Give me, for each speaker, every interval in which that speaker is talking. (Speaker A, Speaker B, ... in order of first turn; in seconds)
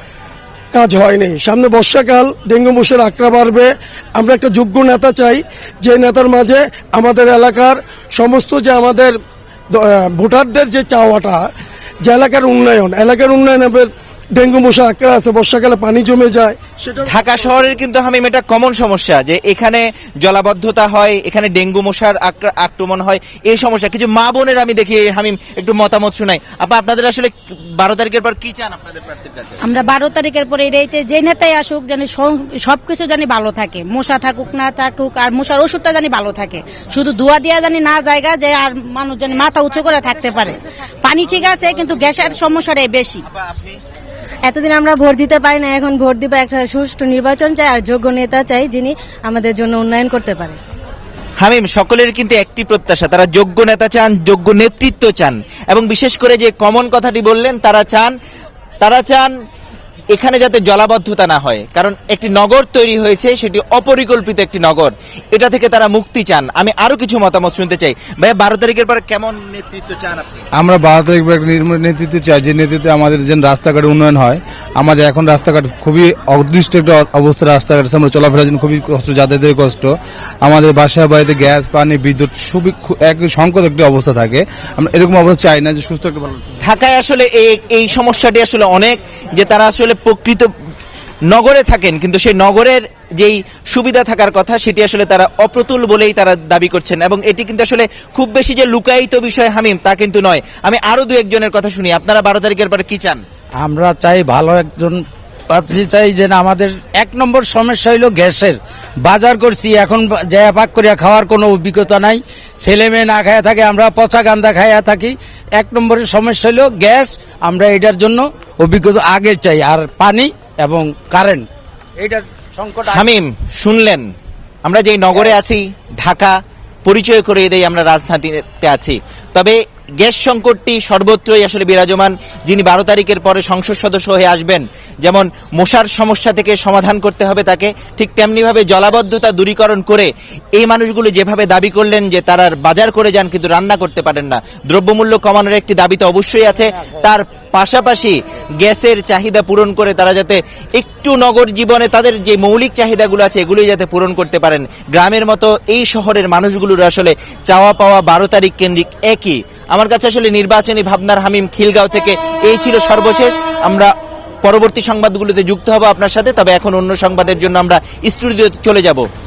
Speaker A: 0.7-9.1, 9.7-11.4, 12.0-17.7
Speaker B: 17.0-29.6, 43.3-43.8, 51.4-58.1, 58.8-59.3, 60.1-70.4, 86.6-90.5, 91.3-103.2, 122.9-124.1, 124.6-163.9, 164.4-169.1
Speaker C: 29.6-43.2
Speaker D: 44.5-50.6
Speaker E: 70.6-86.6
Speaker F: 103.6-121.5, 122.0-123.0